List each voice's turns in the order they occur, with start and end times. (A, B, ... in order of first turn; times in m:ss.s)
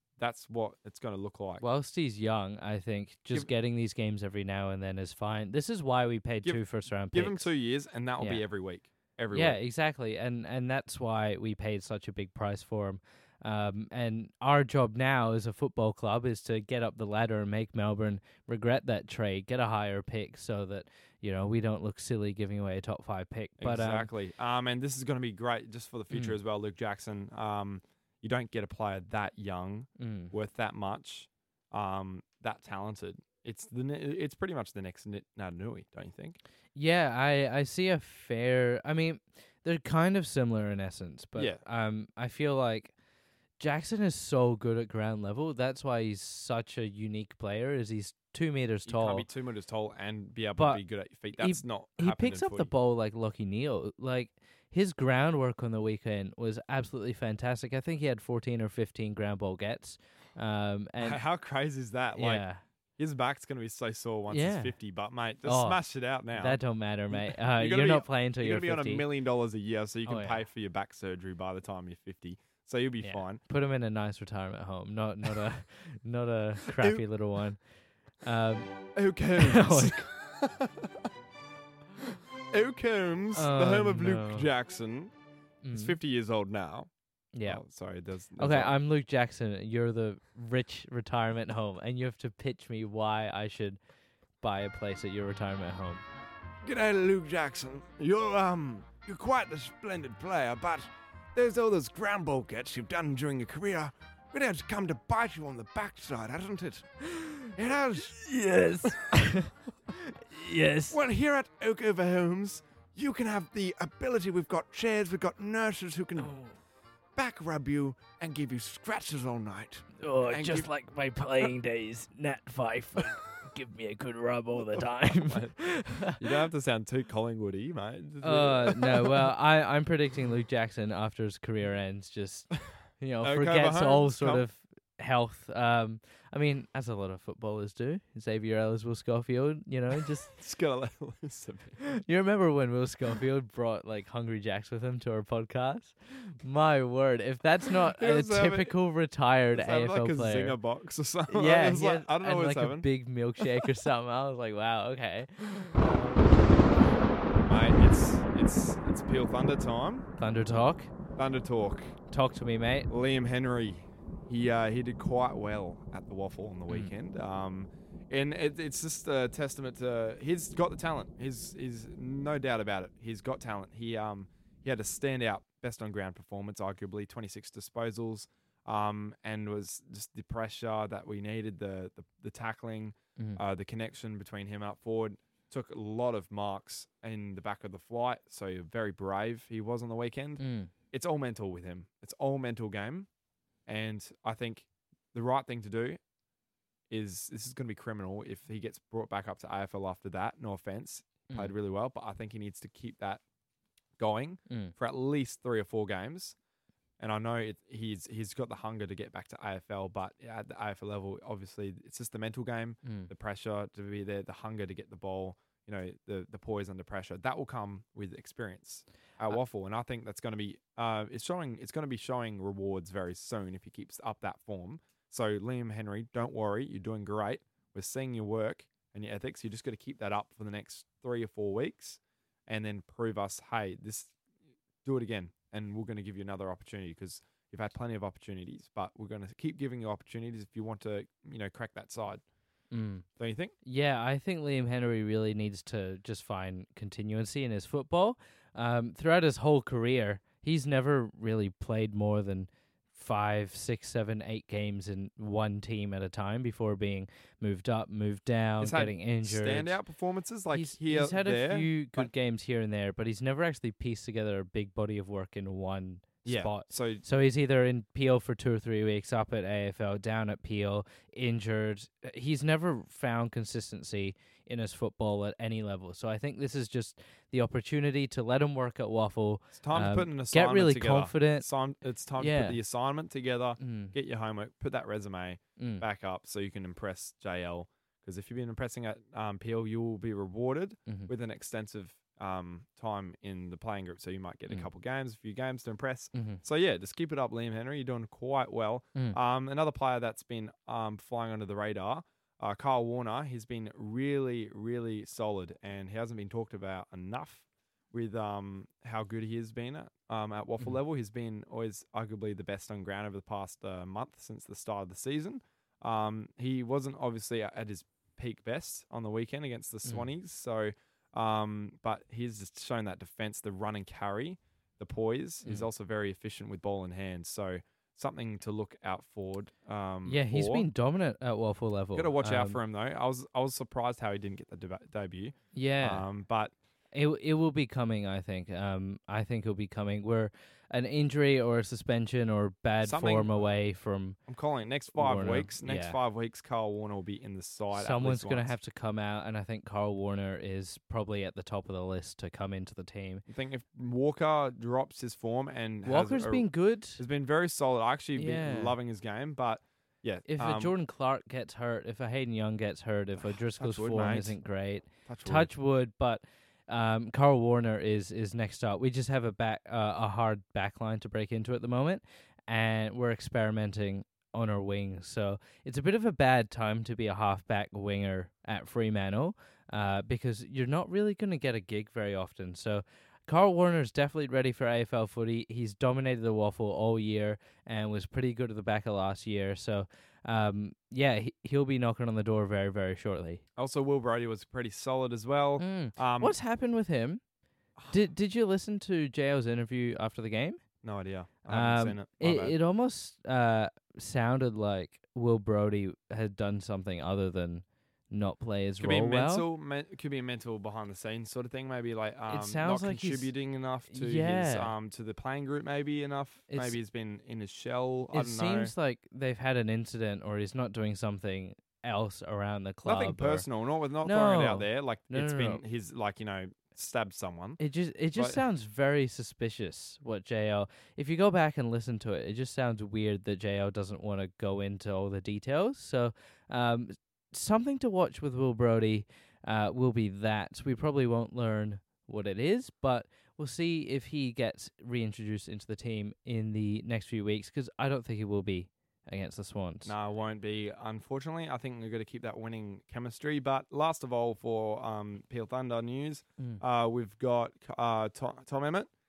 0:00.2-0:01.6 A
0:01.6-0:07.5 B
0:06.4-0:09.6 A
0:09.3-0:24.1 B
0:23.6-0:36.4 A
0:26.1-0:26.4 B
0:30.0-0:30.3 B
0:36.7-0:42.9 B
0:41.4-0:41.6 A
0:43.6-0:49.2 B
0:48.8-0:52.7 A
0:50.6-0:50.8 B
0:51.4-1:01.2 B
1:01.0-1:02.4 A
1:02.1-1:02.6 B
1:03.0-1:06.6 A
1:04.3-1:04.7 B
1:05.4-1:05.8 B
1:06.3-1:09.1 B
1:07.1-1:13.4 A
1:10.0-1:10.4 B
1:13.0-1:17.6 B
1:16.7-1:17.0 A
1:18.2-1:18.7 B
1:18.9-1:21.0 A
1:19.4-1:20.0 B
1:22.0-1:25.1 A
1:23.3-1:24.5 B
1:25.6-1:26.0 B
1:25.7-1:26.9 A
1:27.3-1:27.6 B
1:27.4-1:28.8 A
1:28.4-1:33.8 B
1:34.4-1:36.0 B
1:36.6-1:46.9 A
1:47.1-1:51.0 B
1:47.5-1:48.2 A
1:50.9-1:56.3 A
1:56.2-1:56.5 B
1:57.2-2:00.7 A
2:00.0-2:06.2 B
2:04.6-2:09.3 A
2:08.2-2:20.3 B
2:13.2-2:14.4 A
2:20.3-2:21.8 A
2:21.8-2:30.6 B
2:27.9-2:28.7 A
2:29.5-2:32.9 A
2:31.3-2:35.7 B
2:33.4-2:33.7 A
2:35.5-2:36.6 A
2:37.4-2:40.1 A
2:40.2-2:40.9 B
2:41.2-2:41.9 A
2:42.1-2:42.9 B
2:42.9-3:13.1 A
3:10.4-3:10.7 B
3:13.6-3:16.0 A
3:16.9-3:23.2 A
3:24.0-3:26.4 A
3:24.5-3:24.7 B
3:27.0-3:54.1 A
3:32.8-3:33.1 B
3:54.8-4:02.2 A
4:02.7-4:03.0 B
4:03.2-4:03.5 A
4:03.6-4:19.8 B
4:18.6-4:22.1 A
4:20.5-4:41.5 B
4:26.2-4:27.0 A
4:39.6-5:30.7 A
4:42.2-4:42.6 B
4:43.6-4:43.9 B
4:45.6-4:45.8 B
4:56.1-4:56.4 B
5:30.0-5:32.6 B
5:31.9-5:36.5 A
5:35.5-5:36.0 B
5:36.9-5:44.2 B
5:42.8-5:43.5 A
5:44.2-5:48.5 A
5:44.9-5:46.0 B
5:47.7-5:53.2 B
5:53.3-6:00.7 A
5:55.8-5:57.0 B
5:58.2-5:58.8 B
6:00.3-6:33.4 B
6:03.2-6:04.4 A
6:05.0-6:05.5 A
6:33.6-6:36.4 A
6:35.6-6:37.2 B
6:37.8-6:38.0 A
6:37.9-6:40.6 B
6:40.8-6:42.6 A
6:41.5-6:49.5 B
6:48.8-6:58.7 A
6:52.3-6:53.3 B
6:53.9-6:54.7 B
6:56.5-6:56.8 B
6:58.1-7:03.5 B
7:02.8-7:07.6 A
7:04.0-7:05.6 B
7:07.6-7:29.9 B
7:08.1-7:08.4 A
7:29.8-7:38.9 A